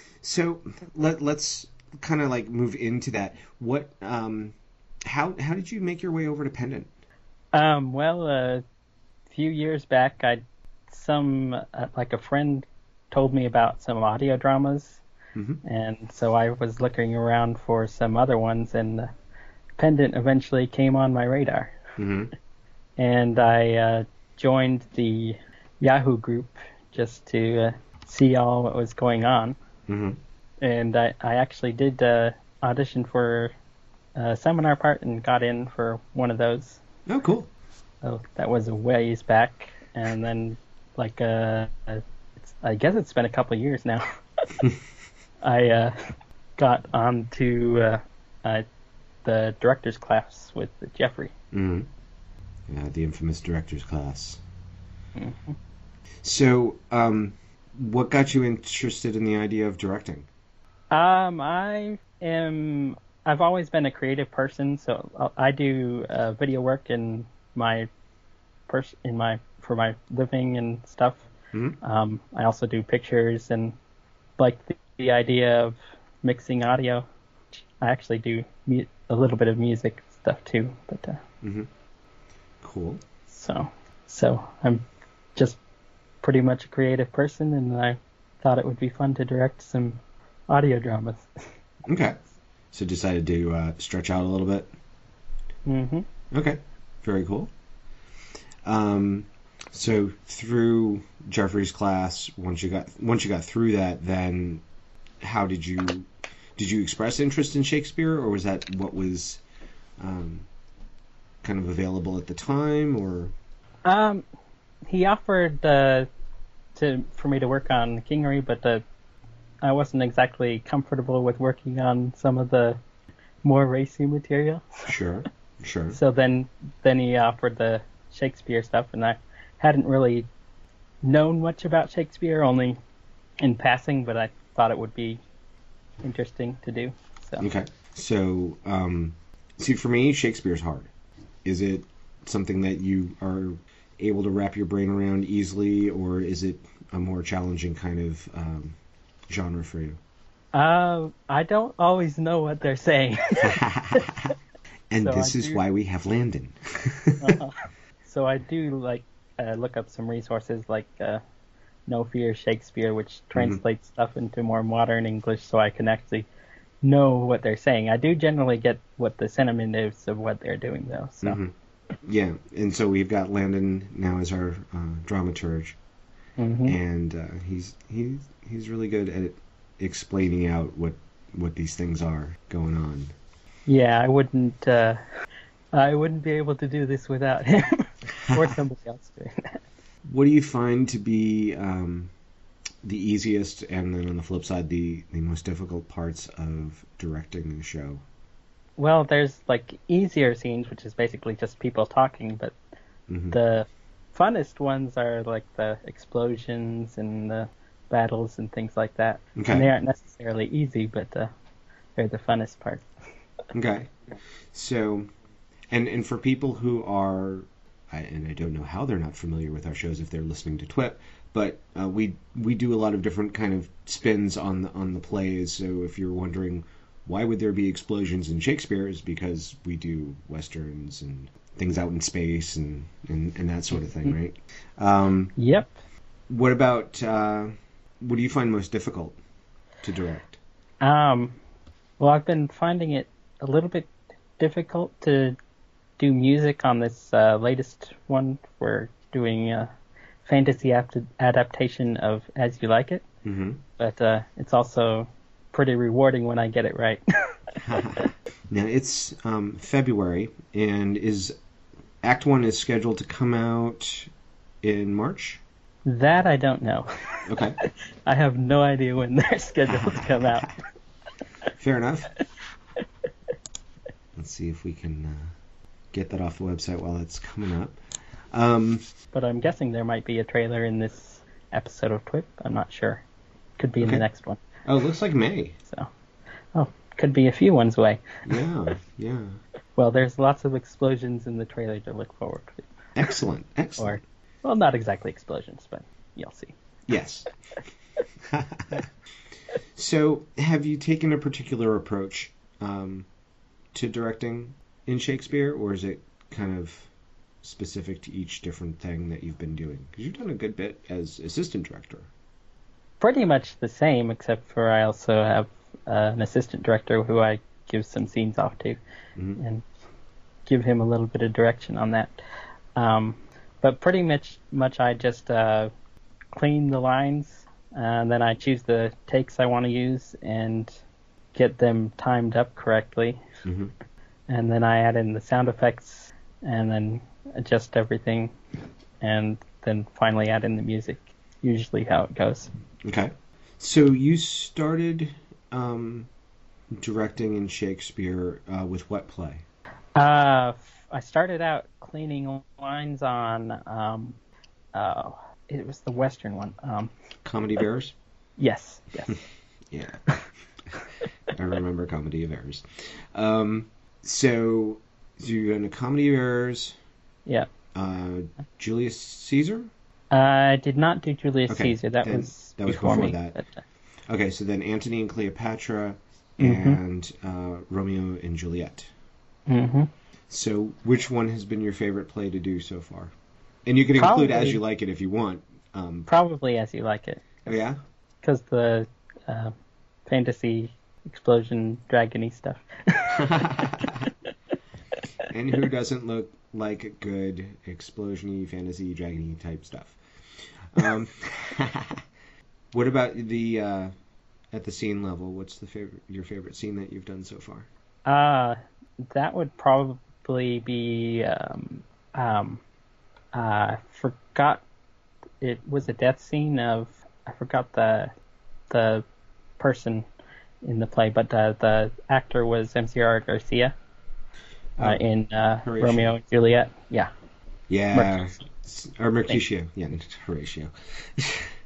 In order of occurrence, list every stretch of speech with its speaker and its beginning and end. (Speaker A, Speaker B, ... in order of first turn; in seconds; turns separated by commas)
Speaker A: 0.2-6.9, Speaker B: 7.5-8.6, Speaker B: 9.3-15.0, Speaker A: 15.3-15.6, Speaker B: 15.6-19.1, Speaker B: 19.8-21.8, Speaker A: 22.0-22.3, Speaker B: 23.0-29.6, Speaker A: 29.9-30.2, Speaker B: 30.6-33.5, Speaker B: 34.2-36.8, Speaker A: 37.1-37.5, Speaker B: 38.0-44.6, Speaker B: 45.4-48.6, Speaker B: 49.2-51.3, Speaker A: 51.5-51.9, Speaker A: 52.7-54.4, Speaker B: 55.2-55.6, Speaker A: 56.2-60.3, Speaker B: 60.9-67.9, Speaker B: 68.7-71.3, Speaker A: 71.5-71.8, Speaker B: 71.8-73.8, Speaker B: 74.4-77.1, Speaker B: 77.8-81.2, Speaker A: 81.4-81.7, Speaker A: 82.6-83.0, Speaker B: 83.3-84.8, Speaker B: 86.2-91.3, Speaker A: 91.9-92.2, Speaker A: 92.7-94.7, Speaker B: 95.7-96.1, Speaker A: 96.3-97.5, Speaker A: 98.6-104.6, Speaker A: 105.2-109.4, Speaker A: 110.0-110.5, Speaker A: 111.4-113.3, Speaker B: 113.9-114.2, Speaker B: 114.9-116.1, Speaker B: 116.8-118.8, Speaker B: 119.6-122.8, Speaker B: 123.4-124.9, Speaker A: 124.9-126.0, Speaker B: 125.9-130.3, Speaker B: 131.0-132.8, Speaker B: 133.4-135.2, Speaker B: 136.0-137.5, Speaker A: 137.4-140.9, Speaker A: 141.4-148.8, Speaker A: 149.3-150.0, Speaker B: 150.5-154.0, Speaker A: 153.4-154.3, Speaker A: 154.9-157.4, Speaker B: 155.0-155.6, Speaker B: 157.2-161.2, Speaker B: 161.9-166.3, Speaker A: 163.3-163.6, Speaker B: 166.8-171.4, Speaker A: 171.2-175.8, Speaker B: 176.4-176.8, Speaker A: 176.7-183.1, Speaker B: 183.7-185.0, Speaker B: 185.7-189.6, Speaker A: 188.1-188.6, Speaker A: 190.1-192.1, Speaker A: 192.8-198.0, Speaker B: 198.8-202.6, Speaker A: 203.1-203.4, Speaker B: 203.3-211.3, Speaker A: 209.4-209.7, Speaker B: 212.0-212.9, Speaker A: 213.5-213.9, Speaker A: 214.5-215.1, Speaker A: 215.7-235.3, Speaker B: 235.4-235.8, Speaker A: 236.3-239.2, Speaker A: 239.8-240.4, Speaker B: 240.8-241.4, Speaker B: 242.0-245.4, Speaker B: 246.0-249.7, Speaker B: 250.2-253.1, Speaker A: 253.2-253.6, Speaker B: 253.8-258.0, Speaker A: 257.6-261.4, Speaker A: 262.0-264.1, Speaker A: 264.6-265.4, Speaker B: 265.9-270.6, Speaker A: 267.3-267.6, Speaker A: 269.7-270.5, Speaker A: 271.6-272.1, Speaker A: 274.2-275.3, Speaker A: 275.9-277.8, Speaker A: 278.3-278.8, Speaker B: 279.1-283.0, Speaker B: 283.6-284.4, Speaker A: 283.8-284.1, Speaker A: 284.6-285.6, Speaker B: 286.5-288.2, Speaker A: 288.3-289.4, Speaker B: 289.8-292.7, Speaker A: 293.0-294.0, Speaker B: 293.8-296.6, Speaker A: 296.9-297.3, Speaker A: 298.2-298.9, Speaker A: 299.8-303.1, Speaker A: 303.7-306.9, Speaker A: 307.4-312.1, Speaker B: 313.0-318.8, Speaker A: 319.2-319.4, Speaker B: 319.4-319.6, Speaker B: 320.5-322.2, Speaker B: 322.8-325.7, Speaker B: 326.3-330.8, Speaker B: 331.3-333.2, Speaker A: 333.4-333.7, Speaker B: 334.3-338.4, Speaker B: 339.0-342.5, Speaker A: 342.8-346.1, Speaker A: 346.7-349.4, Speaker B: 350.0-354.2, Speaker B: 354.7-356.9, Speaker A: 357.2-357.9, Speaker B: 358.4-359.2, Speaker A: 359.7-360.0, Speaker A: 361.3-366.8, Speaker A: 367.8-369.7, Speaker B: 370.1-373.6, Speaker A: 371.5-373.4, Speaker A: 374.1-378.9, Speaker B: 376.4-376.8, Speaker B: 379.5-379.9, Speaker A: 380.3-383.1, Speaker A: 383.7-386.1, Speaker B: 384.0-384.6, Speaker B: 386.1-387.5, Speaker A: 387.5-387.8, Speaker B: 388.2-389.5, Speaker B: 390.1-393.3, Speaker A: 393.1-394.1, Speaker A: 395.3-400.0, Speaker A: 400.7-402.0, Speaker A: 402.7-403.9, Speaker A: 404.5-407.7, Speaker B: 408.1-412.6, Speaker B: 413.3-414.6, Speaker B: 415.4-418.1, Speaker B: 418.7-419.1, Speaker B: 419.6-420.1, Speaker B: 420.6-423.8, Speaker A: 424.8-425.0, Speaker B: 424.8-427.1, Speaker A: 425.6-426.1, Speaker A: 427.7-431.5, Speaker B: 427.9-428.3